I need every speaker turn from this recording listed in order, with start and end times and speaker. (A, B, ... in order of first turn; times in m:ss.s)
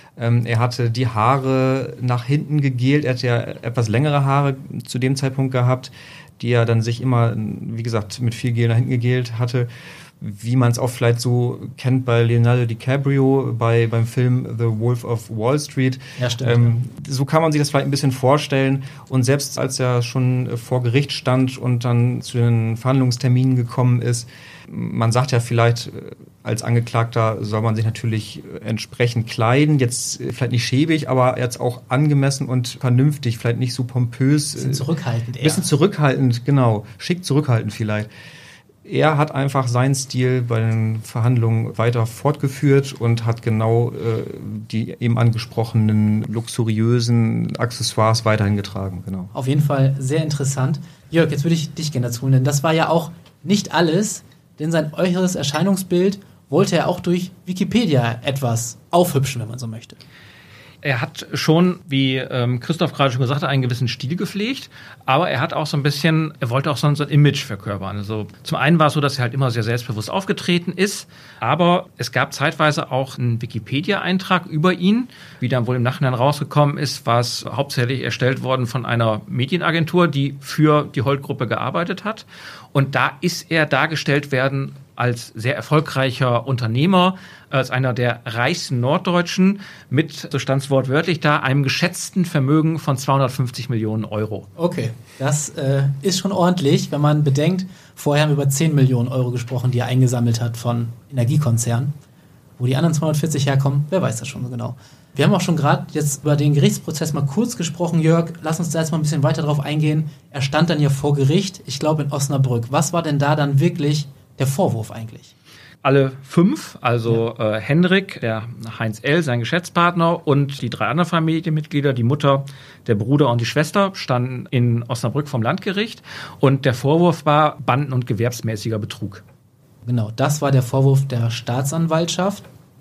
0:00.2-0:09.7 A
0:10.2-0:34.9 A
0:16.2-0:16.8 B
0:34.6-0:35.7 B
0:35.4-0:38.1 A
0:38.8-0:49.3 A
0:49.3-1:00.0 B
1:00.8-1:34.5 C
1:34.6-1:42.0 B
1:42.6-1:55.3 B
1:55.8-2:09.2 C
2:09.9-2:12.5 B